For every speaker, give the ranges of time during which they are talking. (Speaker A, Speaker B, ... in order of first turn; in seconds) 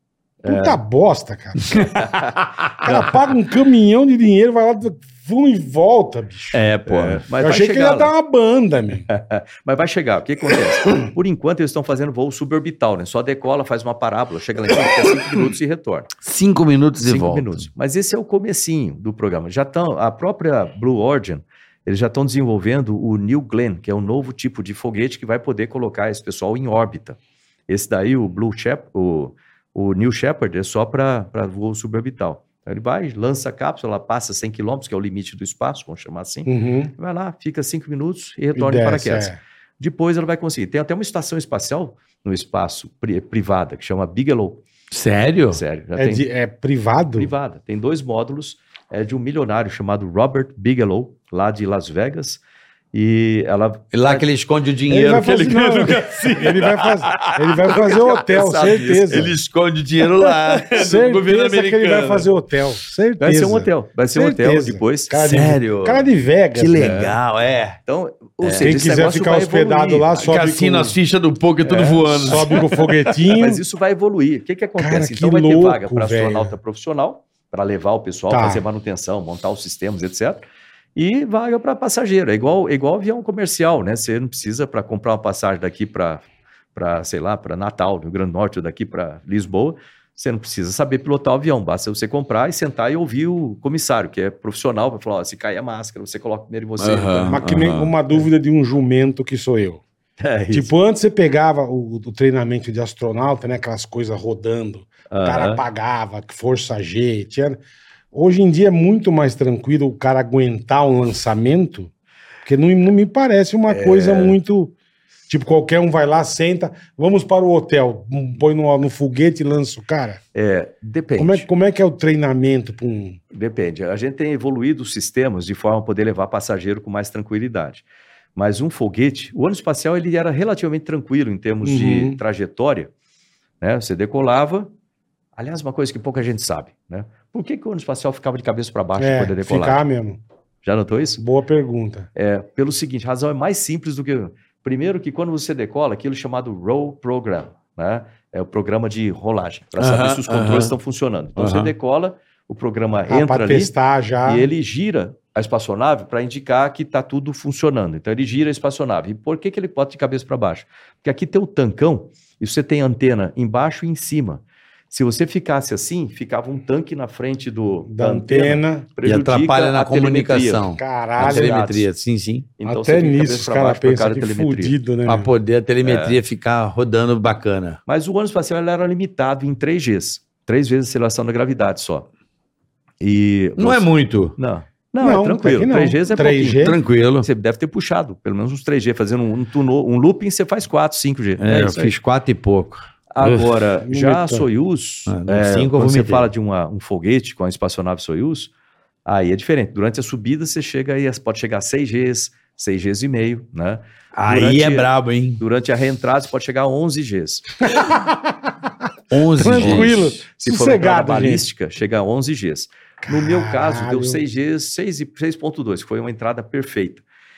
Speaker A: 0.4-0.8, 1.8-3.2, 6.9-8.1, 9.1-16.1, 17.0-27.2, 27.7-44.6, 45.5-46.2, 47.2-52.4, 52.9-54.3, 57.7-59.3, 63.2-65.3, 66.8-67.2, 67.9-70.1, 71.6-72.6, 73.3-80.4, 81.0-86.2, 86.8-97.4, 100.2-100.7, 105.1-105.6, 113.7-114.4, 120.3-121.5, 123.3-127.8, 128.4-132.9, 133.6-134.7, 135.4-139.8, 140.6-141.2, 142.2-153.7, 154.2-171.9, 172.6-174.8, 175.8-176.2, 177.9-182.1, 183.0-191.9, 193.1-198.5, 199.1-207.6, 209.5-217.0
Speaker B: 0.5-2.0, 2.8-6.6, 7.4-9.1, 36.5-36.9, 38.5-39.4, 46.0-47.3, 54.9-59.3, 60.7-67.1, 68.6-71.0, 72.1-73.6, 74.8-76.6, 78.3-78.6, 97.3-99.8, 100.5-107.6, 108.1-111.9, 112.5-114.7, 115.3-120.2, 121.2-123.2, 131.6-132.2, 139.0-140.2, 141.2-142.1, 153.1-154.5, 167.9-168.9, 170.8-171.6, 172.7-175.3, 185.0-186.8, 193.8-194.5, 207.7-208.5, 209.4-211.4, 213.0-214.2
Speaker C: 6.5-7.2, 16.2-17.7, 44.9-45.6, 53.9-58.0, 59.1-62.3, 65.2-67.8, 68.4-68.8, 70.2-72.6, 96.8-97.9, 149.8-150.7, 151.4-151.7, 169.1-172.5, 175.1-177.8, 183.6-184.4, 186.6-187.3, 191.4-193.5, 195.1-196.3, 204.2-205.4, 209.1-210.1